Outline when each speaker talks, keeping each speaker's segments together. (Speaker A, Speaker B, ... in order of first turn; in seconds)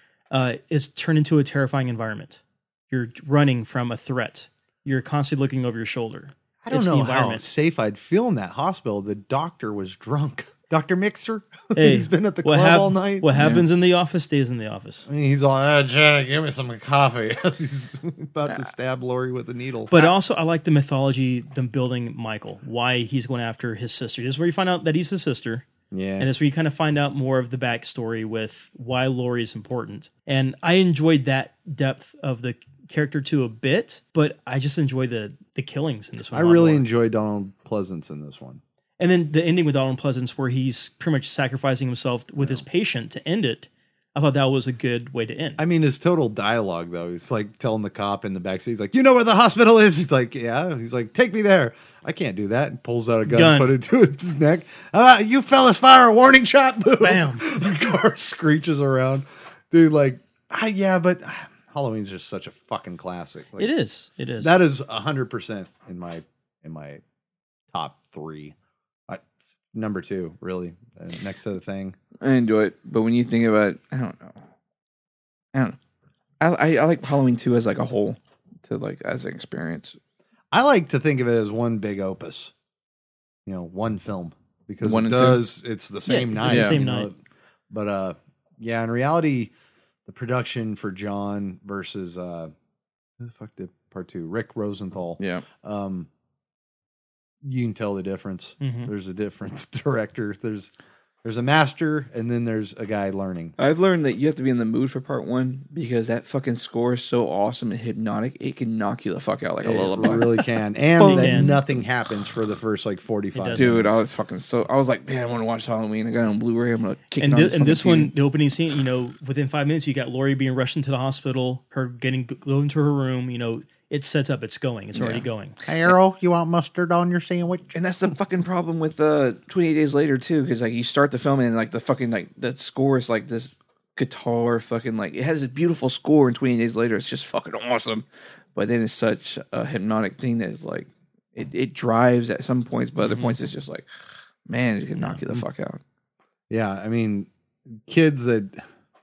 Speaker A: 0.3-7.5, 11.8-15.1, 19.9-25.6, 26.2-36.9, 39.0-45.6, 53.3-53.7, 57.0-57.5, 63.6-64.5, 86.0-87.1, 98.6-98.9, 111.0-111.6, 113.3-113.8, 117.2-125.6, 143.0-143.3
Speaker B: 6.6-13.3, 15.1-19.9, 25.9-26.3, 36.3-38.6, 45.6-63.7, 64.4-67.0, 67.7-68.5, 69.1-72.0, 80.5-82.5, 83.5-87.2, 87.7-89.5, 90.1-92.5, 93.2-96.1, 97.4-100.7, 101.2-103.5, 109.6-114.0, 125.7-127.8, 146.5-147.3, 147.9-148.6
Speaker C: 13.3-13.7, 72.2-74.4, 76.4-80.0, 84.8-85.4, 86.5-86.8, 95.2-95.5, 103.6-110.3, 111.0-111.6, 113.5-118.1, 125.0-125.3, 127.8-143.9, 144.5-145.8